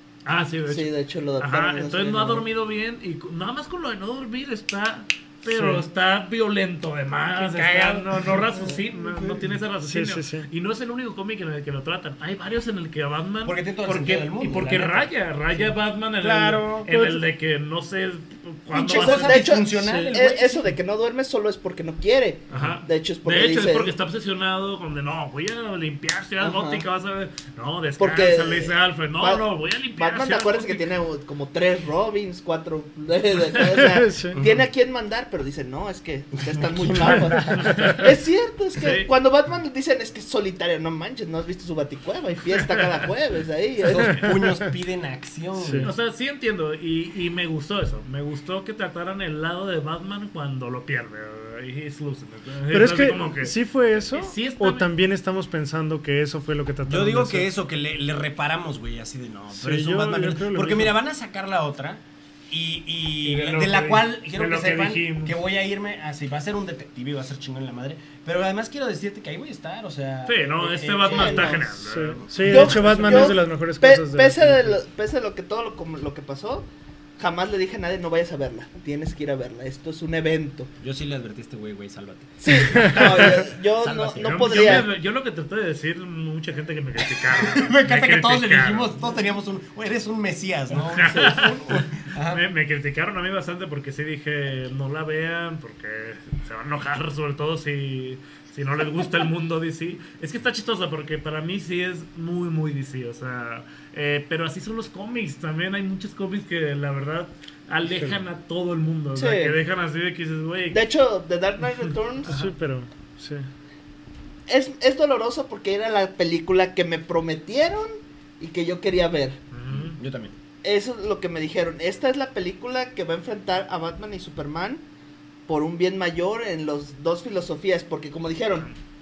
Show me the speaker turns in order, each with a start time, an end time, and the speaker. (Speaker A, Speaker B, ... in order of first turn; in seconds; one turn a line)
Speaker A: 0.3-19.5
Speaker B: 0.7-2.5
Speaker C: 5.5-5.8
Speaker D: 7.3-8.4
Speaker C: 9.2-10.5
Speaker D: 13.4-16.9
Speaker C: 16.9-17.2
Speaker D: 18.7-20.7
Speaker B: 18.8-23.9
Speaker C: 19.7-20.1
Speaker A: 22.5-30.9
Speaker D: 22.5-22.8
Speaker B: 26.4-26.8
Speaker B: 28.0-29.4
Speaker B: 30.0-44.3
Speaker C: 33.6-34.4
Speaker D: 34.3-34.6
Speaker D: 36.7-37.8
Speaker A: 37.4-38.1
Speaker C: 37.6-38.0
Speaker A: 38.8-39.1
Speaker D: 43.9-45.9
Speaker C: 45.6-45.9
Speaker A: 45.8-54.9
Speaker C: 52.7-57.5
Speaker D: 56.9-73.3
Speaker C: 59.6-60.9
Speaker A: 63.2-65.4
Speaker A: 70.3-72.8
Speaker B: 71.1-71.7
Speaker C: 71.8-74.8
Speaker B: 72.5-76.7
Speaker B: 77.2-80.7
Speaker D: 80.8-84.9
Speaker B: 82.4-84.9
Speaker A: 84.2-89.1
Speaker D: 87.0-92.4
Speaker A: 90.7-110.8
Speaker C: 107.9-108.2
Speaker B: 109.2-109.5
Speaker B: 110.7-112.3
Speaker A: 112.3-112.5
Speaker C: 112.3-113.5
Speaker B: 114.5-119.4
Speaker A: 119.5-120.0
Speaker D: 119.7-120.3
Speaker B: 120.6-124.8
Speaker B: 125.5-128.7